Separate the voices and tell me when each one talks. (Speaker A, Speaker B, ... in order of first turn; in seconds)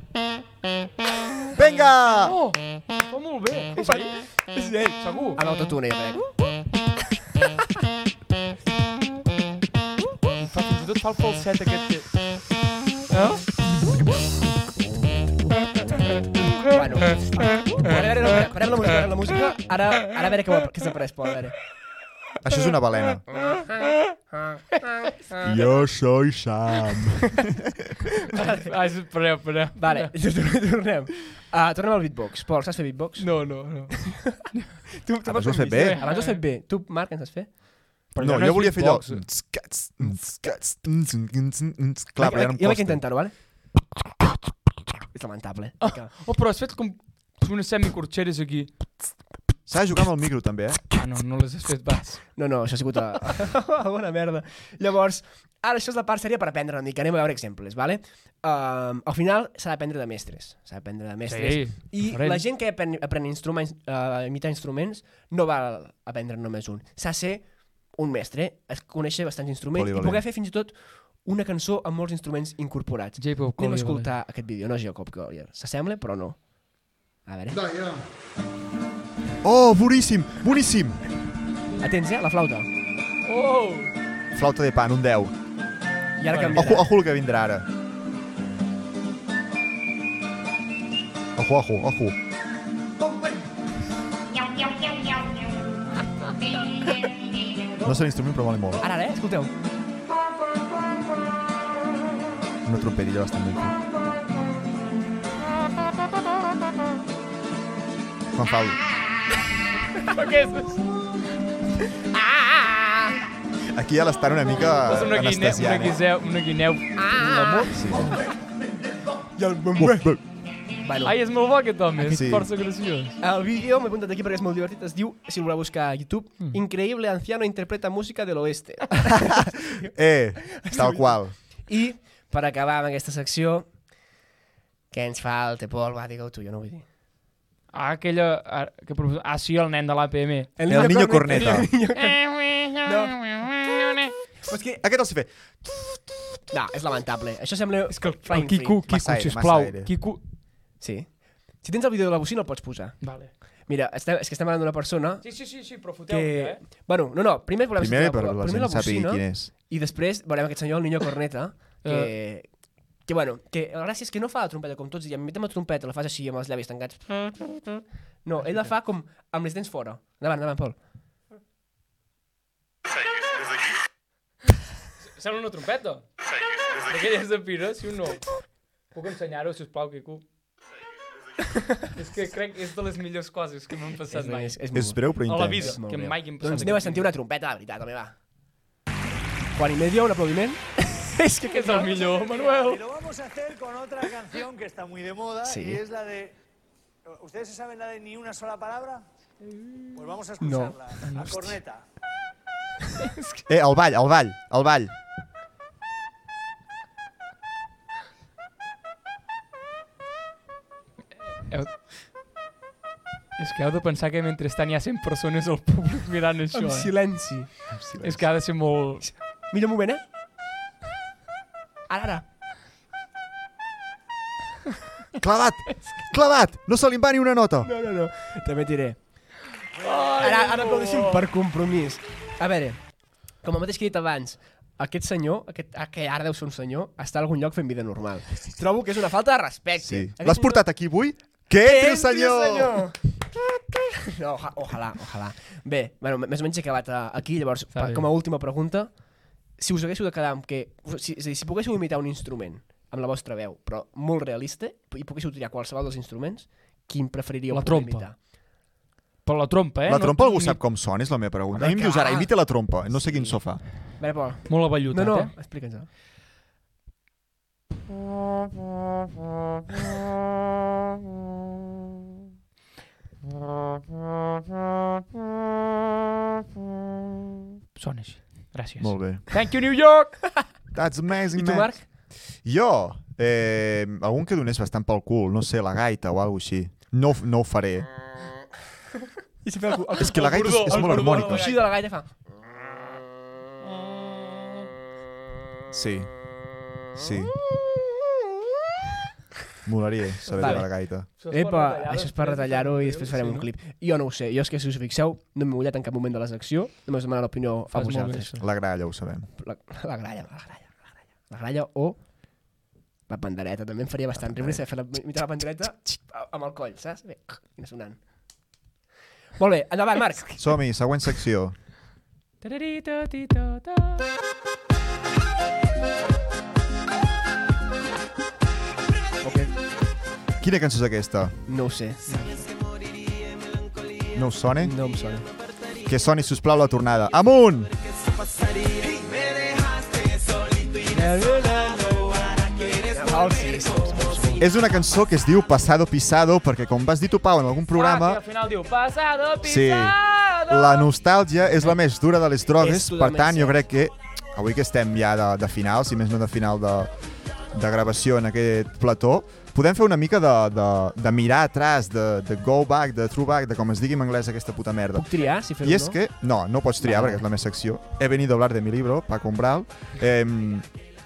Speaker A: 1.5-2.4, 22.4-23.2, 25.4-27.7, 35.2-36.0, 38.2-43.0, 49.7-50.8, 69.7-70.2, 79.4-81.0, 84.3-85.3, 86.5-87.7, 91.3-92.2, 97.8-98.8, 102.6-103.7, 108.3-108.8, 113.7-116.0, 117.7-118.1, 119.8-120.2, 122.1-122.5, 129.1-131.3, 140.7-141.7, 144.8-146.0, 148.9-149.9, 157.7-159.5, 184.7-185.8, 203.5-204.9, 217.7-218.3, 225.2-227.7, 239.8-242.8, 259.9-263.6, 278.8-279.2, 280.7-281.7, 282.4-287.9, 290.0-291.5, 295.7-296.1, 296.9-297.3, 299.6-301.1, 308.4-309.3, 314.2-314.6, 320.4-321.6, 330.4-331.4, 334.1-334.7, 335.9-337.7, 344.4-348.2, 349.4-350.0, 350.5-356.9, 357.5-370.6
Speaker B: 2.2-4.2, 5.0-5.4, 10.4-12.1, 13.1-13.4, 28.3-30.1, 33.2-34.0, 35.8-36.4, 38.1-39.2, 45.8-48.7, 50.9-52.2, 61.2-62.4, 73.2-74.1, 83.2-83.9, 86.3-86.7, 110.1-110.8, 114.8-117.9, 121.0-123.2, 137.7-144.1, 147.9-150.2, 153.0-153.3, 155.2-156.6, 161.8-162.1, 175.2-176.1, 176.8-178.2, 178.9-180.2, 181.9-184.6, 185.2-187.1, 191.4-192.8, 201.0-201.5, 211.3-211.7, 213.4-216.9, 218.0-219.1, 229.8-231.3, 247.7-248.1, 257.5-258.1, 259.2-260.6, 264.5-265.3, 277.8-280.2, 290.0-291.7, 300.2-303.5, 307.7-308.4, 322.4-324.0, 332.1-332.4, 347.7-350.9
Speaker C: 3.8-6.3, 16.6-21.6, 23.4-23.8, 24.3-25.6, 29.8-33.3, 33.9-34.4, 35.0-37.6, 42.2-43.3, 45.1-46.1, 52.4-76.4, 77.2-77.7, 81.8-82.7, 86.2-86.9, 98.8-99.5, 112.1-113.2, 117.0-118.2, 119.3-120.1, 120.8-121.2, 122.0-122.3, 123.2-129.9, 130.4-133.7, 134.9-136.8, 140.6-143.3, 144.4-144.8, 146.5-148.8, 150.8-155.2, 156.1-162.5, 163.1-170.8, 184.1-188.1, 189.5-192.2, 195.4-195.8, 200.4-200.8, 216.5-217.7, 219.0-220.0, 221.9-222.2, 227.6-229.0, 230.2-232.8, 233.4-240.6, 241.6-243.1, 243.7-249.0, 249.6-258.1, 261.5-262.3, 262.9-263.4, 264.0-265.9, 281.3-281.8, 289.4-292.1, 300.4-300.7, 301.3-308.3, 309.4-312.0, 313.1-318.0, 319.4-320.5, 329.2-329.5, 331.5-332.1, 334.6-335.3, 340.9-344.5, 352.6-353.6, 364.9-366.0, 366.8-367.2
Speaker D: 191.9-196.3, 197.2-199.0, 199.9-201.8